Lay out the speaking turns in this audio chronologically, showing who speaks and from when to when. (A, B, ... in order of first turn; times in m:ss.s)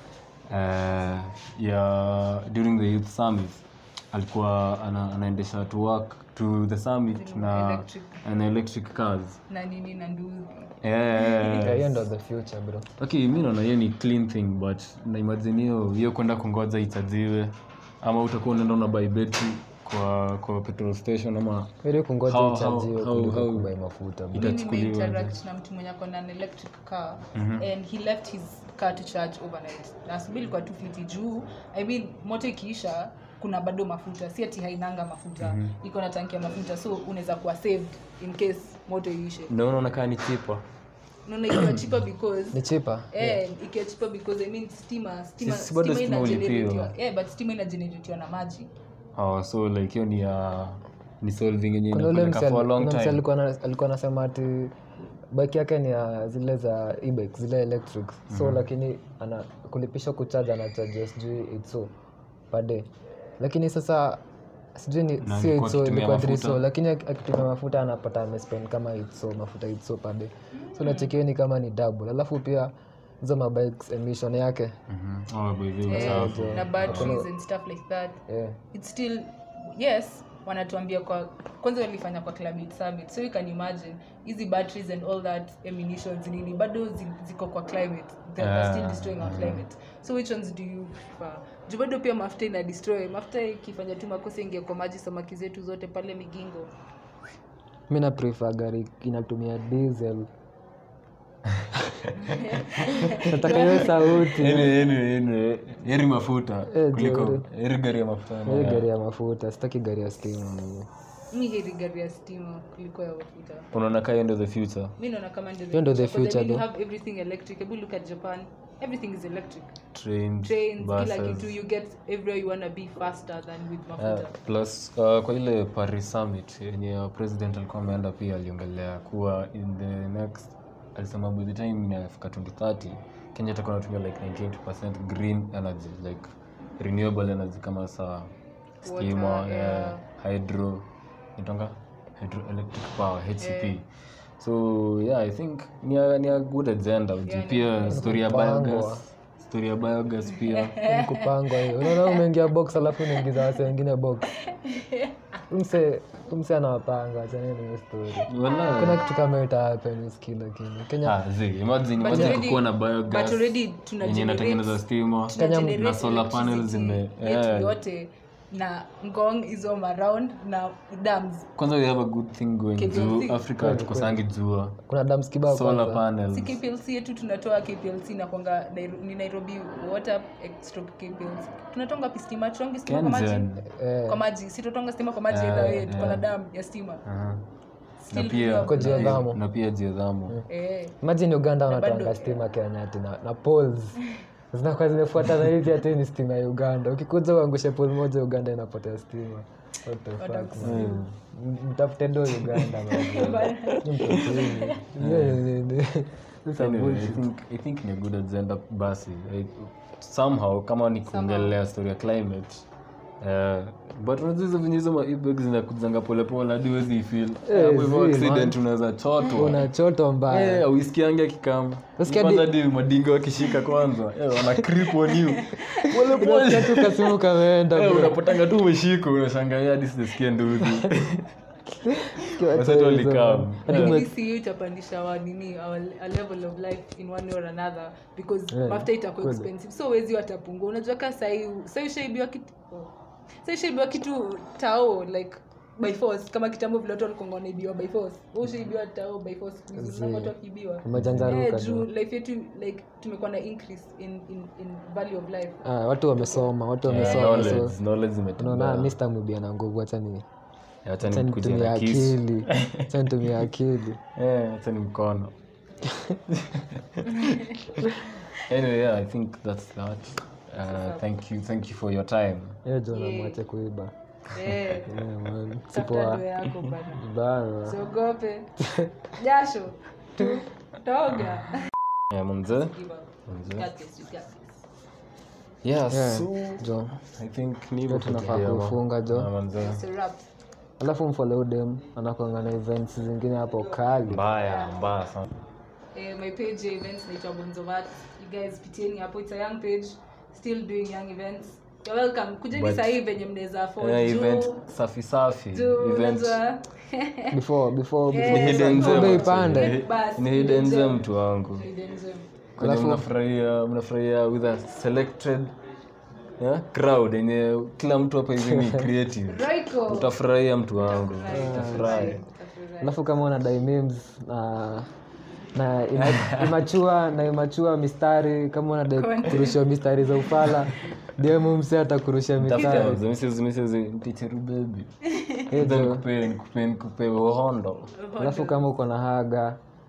0:00.5-0:09.4 A
0:07.1-0:08.2 B
0:09.5-0:11.7 B
0:10.8-0:12.0 A
0:11.6-0:12.9 C
0:13.0-0:23.7 A
0:21.8-0:24.5 C
0:24.3-0:25.4 A
0:24.4-0:39.5 B
0:27.4-0:27.7 A
0:35.4-0:35.7 A
0:39.5-0:40.6 A
0:41.3-0:48.7 B
0:42.5-0:43.4 C
0:45.4-0:46.9 A
0:49.2-0:53.2 A
0:51.9-0:54.8 C
0:55.3-1:01.9 C
0:58.3-0:58.6 A
1:02.5-1:02.9 C
1:03.4-1:04.2 C
1:04.8-1:14.8 C
1:05.2-1:06.6 A
1:10.5-1:11.1 B
1:14.9-1:17.2 A
1:15.9-1:36.7 B
1:15.9-1:17.3 C
1:18.3-1:18.6 C
1:28.4-1:29.6 A
1:37.9-1:40.3 C
1:42.2-1:44.3 B
1:42.9-1:44.7 C
1:43.8-1:48.9 A
1:46.7-1:47.4 C
1:48.5-1:50.9 C
1:51.3-1:53.7 B
1:53.7-1:55.0 A
1:55.0-1:59.8 B
1:55.7-1:56.6 C
1:59.9-2:01.6 A
2:00.4-2:04.4 B
2:04.0-2:18.3 A
2:18.8-2:20.0 B
2:18.9-2:23.9 A
2:23.4-2:23.8 B
2:24.4-2:30.8 A
2:27.3-2:28.1 B
2:27.9-2:29.0 C
2:30.4-2:32.2 B
2:30.9-2:34.3 C
2:33.1-2:33.4 B
2:34.4-2:35.1 B
2:35.5-2:41.2 C
2:38.2-2:38.5 B
2:38.2-2:39.1 A
2:41.0-2:47.8 A
2:42.0-2:51.5 B
2:42.1-2:42.4 C
2:45.4-2:45.8 C
2:51.6-2:54.8 A
2:52.8-2:53.5 B
2:53.6-2:54.2 C
2:54.9-2:56.0 C
2:55.5-2:56.6 A
2:56.3-3:07.0 B
3:02.9-3:03.6 A
3:03.7-3:04.2 C
3:05.3-3:06.3 A
3:07.0-3:07.4 A
3:08.0-3:09.2 B
3:08.1-3:10.4 A
3:08.6-3:09.4 C
3:10.5-3:11.0 B
3:11.0-3:14.0 C
3:11.7-3:12.4 B
3:14.5-3:27.2 C
3:20.2-3:21.0 B
3:20.6-3:21.1 A
3:22.9-3:24.8 B
3:24.1-3:25.4 A
3:26.6-3:32.6 A
3:31.1-3:31.6 B
3:33.2-3:39.7 A
3:37.5-3:38.6 C
3:39.3-3:40.6 C
3:40.3-3:51.3 A
3:42.0-3:42.5 C
3:45.0-3:46.9 B
3:45.8-3:48.2 C
3:51.8-3:54.1 C
3:52.4-3:54.0 A
3:53.7-4:15.6 B
3:58.5-3:59.5 C
4:09.8-4:11.9 C
4:10.9-4:11.4 A
4:15.6-4:17.8 C
4:16.2-4:17.7 B
4:16.9-4:19.0 A
4:18.4-4:20.2 C
4:20.8-4:23.4 A
4:21.0-4:24.0 C
4:24.1-4:25.3 A
4:25.9-4:26.2 C
4:26.3-4:32.6 A
4:27.1-4:27.6 B
4:30.7-4:31.0 B
4:32.6-4:33.9 C
4:32.9-4:33.4 B
4:34.3-4:35.0 B
4:34.5-4:34.8 A
4:34.9-4:36.2 C
4:35.7-4:37.0 B
4:36.9-4:37.8 C
4:37.6-4:38.5 B
4:38.6-4:38.9 C
4:39.1-4:41.7 B
4:42.1-4:42.7 A
4:42.5-4:44.4 B
4:43.3-4:43.7 A
4:45.6-4:49.8 A
4:45.9-4:47.0 C
4:47.9-4:49.3 C
4:49.6-4:50.3 B
4:50.8-4:54.2 C
4:54.1-4:55.3 A
4:55.9-5:04.6 B
5:02.5-5:02.9 A
5:03.8-5:06.4 A
5:05.5-5:07.4 B
5:07.3-5:09.8 C
5:08.1-5:12.3 B
5:08.2-5:11.7 A
5:12.6-5:13.0 C
5:12.6-5:15.5 A
5:16.4-5:22.2 A
5:19.3-5:20.2 B
5:20.7-5:23.1 B
5:21.3-5:22.2 C
5:22.8-5:24.9 C
5:25.6-5:33.0 C
5:26.0-5:26.8 A
5:28.9-5:30.5 B
5:32.4-5:34.9 A
5:35.1-5:35.5 B
5:35.5-5:36.1 C
5:35.5-5:37.9 A
5:37.9-5:38.7 B
5:38.2-5:39.6 C